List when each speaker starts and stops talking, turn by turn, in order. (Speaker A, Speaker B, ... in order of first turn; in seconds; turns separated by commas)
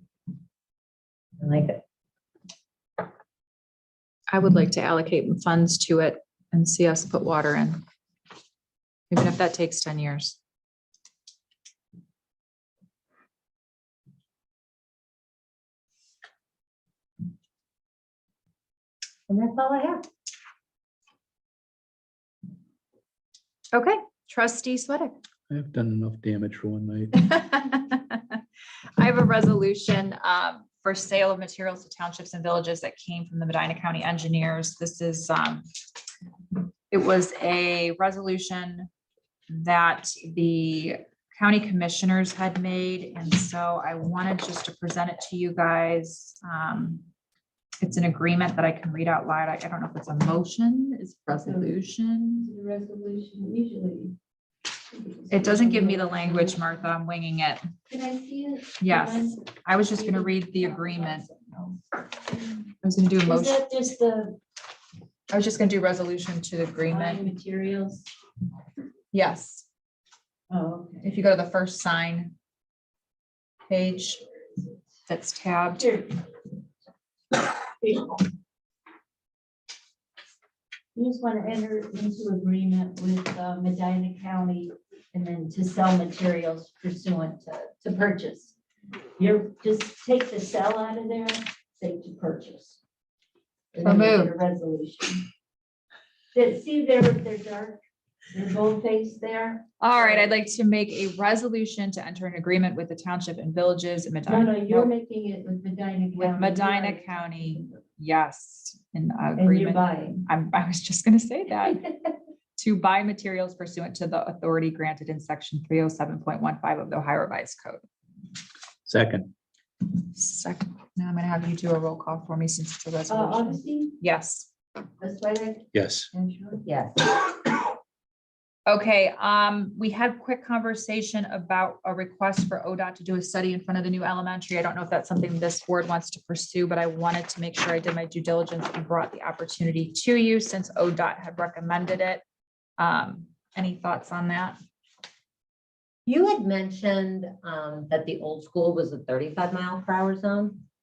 Speaker A: 1.4-1.8, Speaker B: 4.3-7.8, Speaker B: 9.1-10.4, Speaker A: 19.3-20.1, Speaker B: 23.7-25.2, Speaker C: 25.5-27.3, Speaker B: 27.2-28.4, Speaker B: 29.0-35.7, Speaker B: 36.9-38.9, Speaker B: 39.5-47.0, Speaker B: 47.8-52.5, Speaker D: 51.4-51.8, Speaker D: 52.4-54.2, Speaker D: 54.9-56.6, Speaker B: 55.3-57.6, Speaker D: 57.9-61.8, Speaker B: 58.8-61.3, Speaker B: 62.8-63.6, Speaker D: 63.2-64.4, Speaker B: 65.3-67.3, Speaker D: 66.9-68.1, Speaker B: 69.1-69.7, Speaker D: 70.5-71.2, Speaker B: 71.0-72.3, Speaker B: 73.7-74.2, Speaker B: 75.1-75.9, Speaker D: 75.8-76.2, Speaker D: 77.8-78.2, Speaker D: 81.0-88.5, Speaker D: 89.2-92.8, Speaker D: 93.7-95.2, Speaker B: 93.8-94.3, Speaker D: 96.3-97.8, Speaker D: 98.3-100.3, Speaker B: 99.8-104.9, Speaker D: 104.3-107.8, Speaker B: 106.2-111.9, Speaker D: 109.4-110.3, Speaker B: 112.6-117.8, Speaker C: 118.9-119.3, Speaker B: 120.1-124.5, Speaker D: 123.1-124.0, Speaker D: 125.0-126.7, Speaker C: 125.7-126.1, Speaker A: 126.7-127.2, Speaker B: 128.7-142.2, Speaker B: 142.8-144.6, Speaker A: 146.1-150.6